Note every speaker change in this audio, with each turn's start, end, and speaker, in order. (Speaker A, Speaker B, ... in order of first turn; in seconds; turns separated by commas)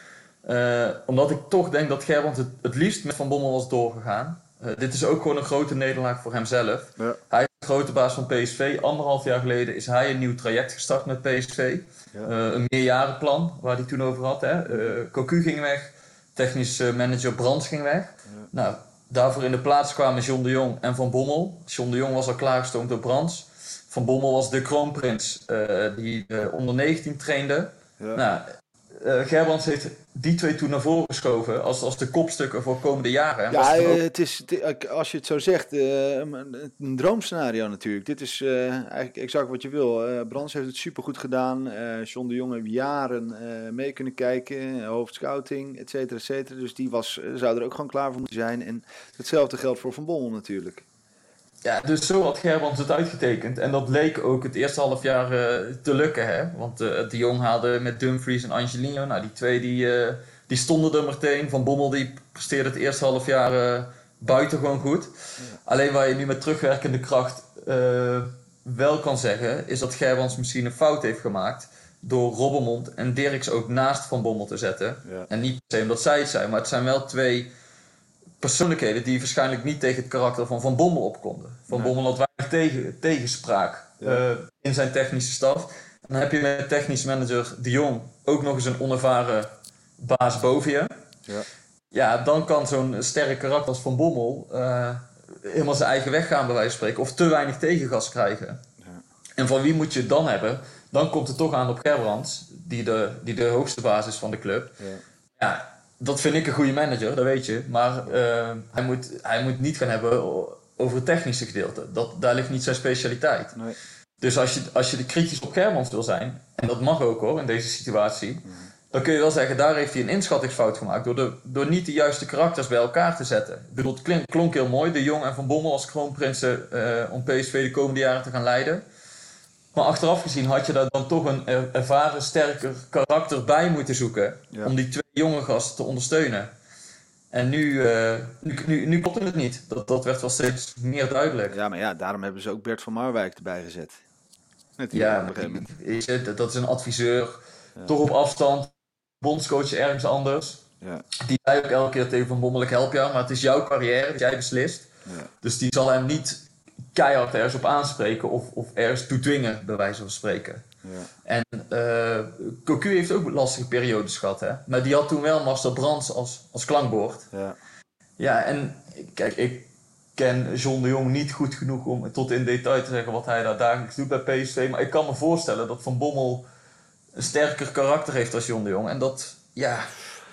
Speaker A: 0.4-34.0, Speaker B: 33.5-50.9, Speaker A: 51.6-77.5, Speaker A: 78.4-90.9, Speaker A: 91.9-98.6, Speaker A: 99.4-104.8, Speaker A: 105.4-113.6, Speaker A: 114.2-128.8, Speaker A: 129.7-136.5, Speaker A: 137.3-141.6, Speaker B: 141.5-144.0, Speaker B: 144.8-145.7, Speaker A: 144.9-150.6, Speaker A: 151.2-154.9, Speaker A: 155.4-160.7, Speaker B: 160.8-161.1, Speaker A: 161.2-167.3, Speaker B: 167.3-167.6, Speaker A: 168.2-176.4, Speaker A: 177.2-179.9